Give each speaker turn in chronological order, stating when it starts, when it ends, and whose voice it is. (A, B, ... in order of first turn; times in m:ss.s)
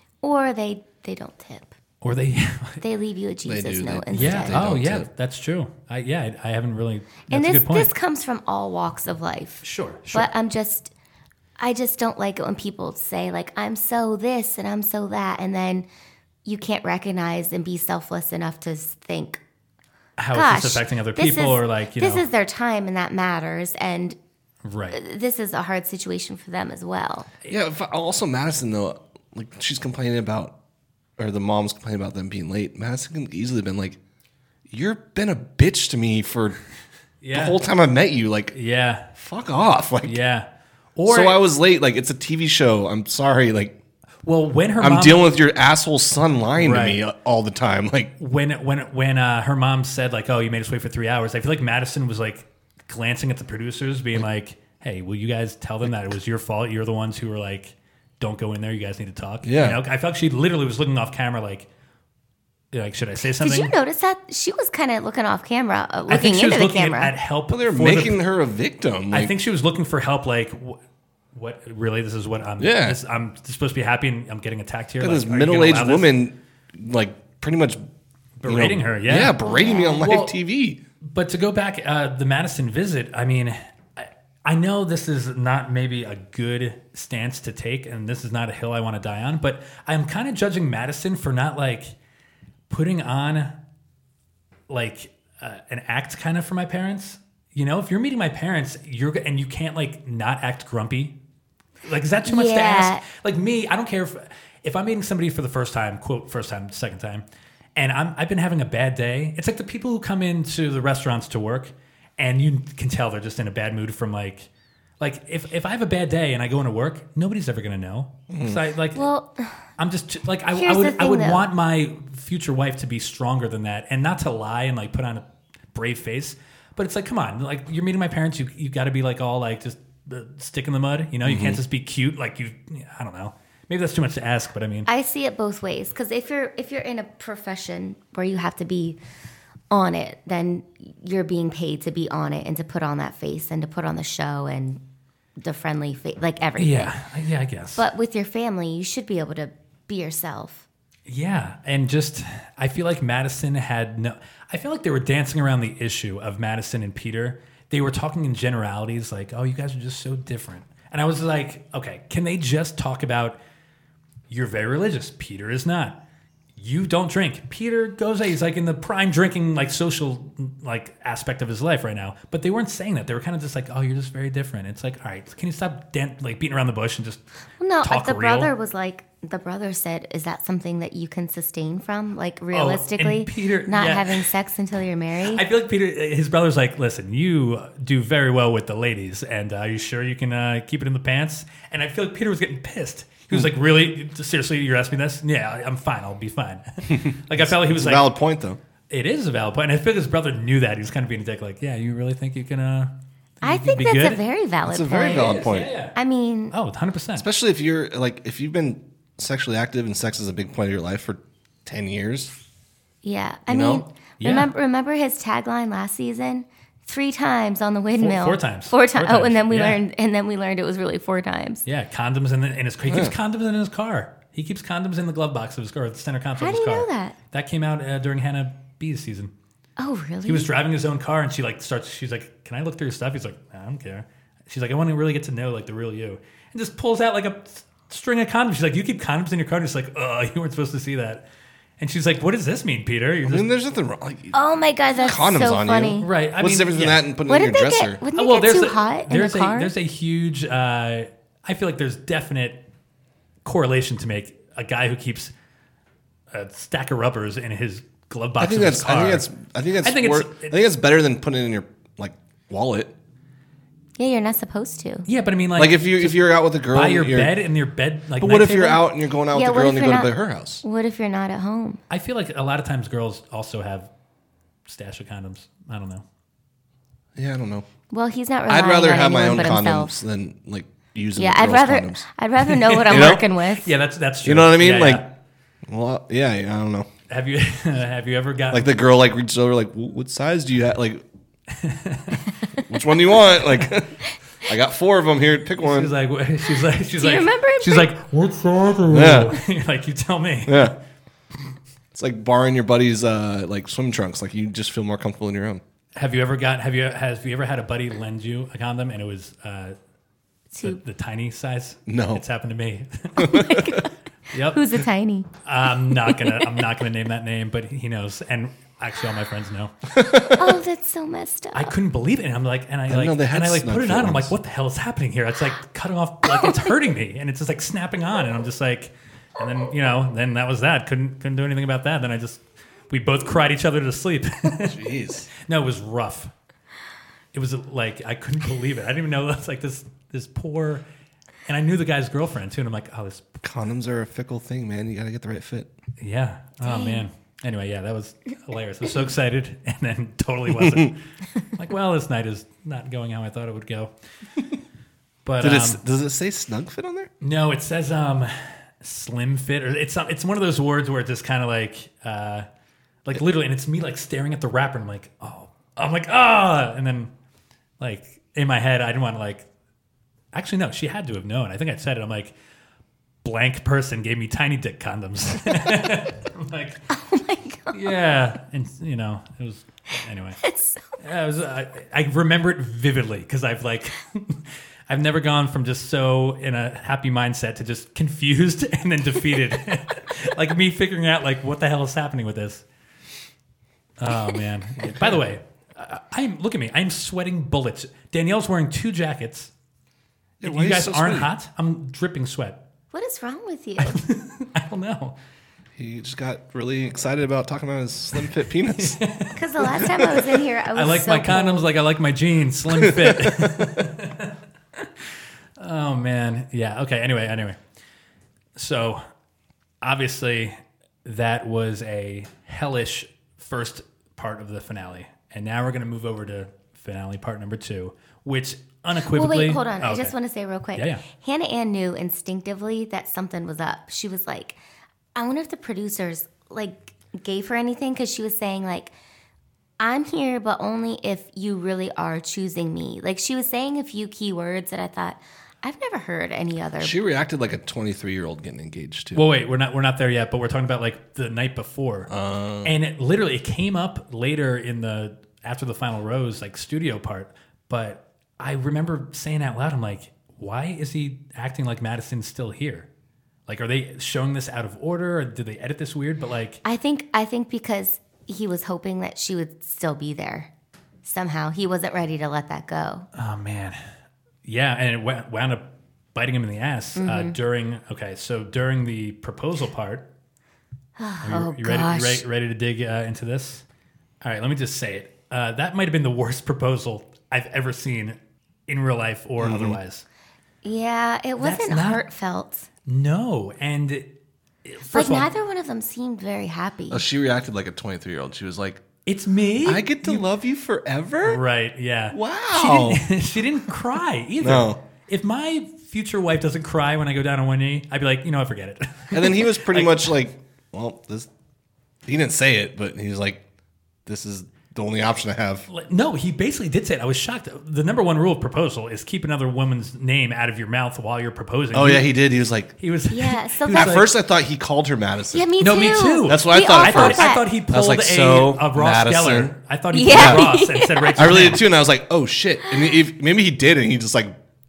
0:00.2-0:01.7 A
0:02.0-0:02.8 B
0:02.8-0:04.6 A
0:03.4-0:05.1 C
0:04.1-0:07.9 B
0:07.3-0:10.9 A
0:09.6-0:10.3 B
0:11.6-0:15.9 A
0:16.4-0:19.4 A
0:20.2-0:22.2 B
0:20.3-0:24.2 A
0:24.6-0:25.0 B
0:24.9-0:27.3 A
0:27.5-0:30.5 C
0:31.2-0:34.0 C
0:34.7-0:36.6 C
0:37.2-0:37.6 B
0:37.3-0:38.5 C
0:38.5-0:39.1 B
0:39.1-0:40.2 C
0:40.0-0:41.4 B
0:41.0-0:43.8 C
0:44.2-0:45.3 B
0:44.8-0:48.1 C
0:46.6-0:47.0 B
0:48.2-1:01.7 B
0:59.4-0:59.8 C
1:02.7-1:03.7 B
1:03.4-1:07.1 A
1:06.1-1:08.2 B
1:07.5-1:09.3 C
1:09.1-1:10.8 B
1:11.3-1:16.1 B
1:12.6-1:13.0 C
1:15.0-1:17.8 C
1:18.4-1:20.3 B
1:18.4-1:20.8 C
1:19.4-1:20.0 A
1:21.0-1:32.0 B
1:32.7-1:33.5 B
1:34.7-1:41.1 B
1:41.8-1:47.2 B
1:42.2-1:43.0 A
1:47.8-1:54.5 B
1:55.0-1:59.0 B
1:58.3-1:58.6 C
1:59.0-1:59.6 A
1:59.8-2:14.9 B
2:00.5-2:01.4 A
2:11.2-2:11.6 C
2:14.8-2:19.0 A
2:19.7-2:24.8 A
2:25.4-2:26.9 A
2:26.6-2:27.8 B
2:27.8-2:30.6 A
2:31.1-2:43.4 B
2:44.3-2:46.0 B
2:46.6-2:57.2 B
2:57.6-3:05.4 A
2:57.8-2:58.5 B
3:02.5-3:04.3 B
3:05.3-3:18.1 B
3:16.9-3:18.6 C
3:18.9-3:24.2 B
3:23.4-3:26.5 A
3:24.6-3:25.7 C
3:25.0-3:26.0 B
3:26.5-3:27.2 B
3:27.2-3:32.3 C
3:33.0-3:41.6 A
3:33.5-3:33.8 C
3:34.2-3:34.5 B
3:38.0-3:39.8 B
3:41.6-3:49.3 B
3:42.9-3:43.1 C
3:46.4-3:47.2 A
3:49.8-3:50.5 A
3:50.2-4:01.2 B
4:01.8-4:03.5 B
4:03.2-4:04.4 C
4:04.3-4:06.1 A
4:04.9-4:08.0 C
4:06.0-4:07.0 B
4:07.3-4:09.7 A
4:08.1-4:12.6 B
4:13.4-4:15.3 B
4:16.3-4:19.3 B
4:18.4-4:22.9 C
4:19.8-4:20.6 B
4:24.0-4:25.1 A
4:25.0-4:28.8 B
4:25.6-4:27.3 C
4:28.2-4:30.6 C
4:29.3-4:31.8 A
4:31.9-4:33.9 B
4:34.7-4:36.0 B
4:37.2-4:37.6 C
4:37.9-4:39.9 A
4:38.5-4:42.0 C
4:41.2-4:43.7 A
4:42.4-4:45.1 B
4:42.9-4:43.2 C
4:44.2-4:45.1 C
4:45.6-4:46.9 C
4:47.1-4:48.7 B
4:48.5-4:51.0 C
4:51.5-4:52.3 B
4:52.6-4:55.9 C
4:55.6-5:00.7 B
4:57.0-4:57.9 A
4:58.9-4:59.4 C
5:00.5-5:00.7 C
5:01.9-5:05.6 C
5:06.0-5:09.8 B
5:10.5-5:10.8 A
5:10.6-5:13.6 B
5:11.9-5:12.2 C
5:13.2-5:13.7 C
5:13.2-5:13.9 A
5:14.3-5:14.6 B
5:14.5-5:15.3 A
5:15.4-5:19.7 B
5:16.1-5:16.4 A
5:19.9-5:20.5 C
5:20.3-5:21.7 A
5:21.5-5:36.3 B
5:22.9-5:24.3 C
5:26.3-5:26.6 A
5:34.6-5:35.3 C
5:37.3-5:40.8 B
5:41.4-5:43.4 B
5:43.4-5:45.7 C
5:46.0-5:53.9 B
5:46.6-5:47.0 A
5:50.6-5:50.9 C
5:55.2-5:55.8 B
5:55.4-5:57.1 C
5:57.2-6:02.5 B
6:03.0-6:07.1 B
6:07.8-6:09.5 B
6:10.3-6:12.3 B
6:13.2-6:16.8 B
6:16.9-6:18.0 A
6:17.7-6:20.4 B
6:20.4-6:20.8 A
6:21.0-6:32.6 B
6:34.0-6:39.5 B
6:34.8-6:35.2 C
6:40.4-6:41.3 C
6:40.4-6:42.6 B
6:42.9-6:44.0 A
6:43.8-6:45.2 B
6:45.8-6:49.0 C
6:48.8-6:54.9 B
6:49.3-6:51.7 A
6:52.7-6:53.8 C
6:55.6-6:57.6 B
6:58.6-6:59.0 B
6:59.8-7:10.1 B
7:09.1-7:14.6 A
7:10.7-7:11.0 B
7:15.1-7:18.9 A
7:19.8-7:27.0 A
7:26.8-7:29.2 C
7:29.1-7:32.1 B
7:32.1-7:32.7 C
7:32.6-7:42.9 B
7:43.5-7:46.6 B
7:46.6-7:50.5 A
7:51.0-7:53.1 A
7:53.1-7:53.8 B
7:54.4-8:00.0 B
7:57.0-7:57.4 A
8:01.0-8:02.2 A
8:01.2-8:03.6 B
8:04.2-8:10.0 B
8:09.4-8:09.8 C
8:10.6-8:12.7 A
8:11.4-8:12.0 B
8:12.8-8:14.1 B
8:14.6-8:15.3 B
8:14.9-8:17.0 A
8:16.9-8:18.8 C
8:19.0-8:20.2 B
8:19.6-8:21.4 C
8:21.2-8:30.1 B
8:22.1-8:23.0 C
8:24.4-8:24.8 C
8:29.1-8:31.3 C
8:32.0-8:33.4 C
8:34.0-8:35.6 C
8:35.7-8:42.1 B
8:41.7-8:42.7 C
8:42.8-8:44.0 B
8:43.1-8:44.0 A
8:43.7-8:45.5 C
8:45.3-8:47.5 A
8:45.6-8:51.6 B
8:46.2-8:49.5 C
8:49.9-8:51.5 A
8:50.1-8:50.5 C
8:51.2-8:54.3 C
8:52.7-8:53.0 A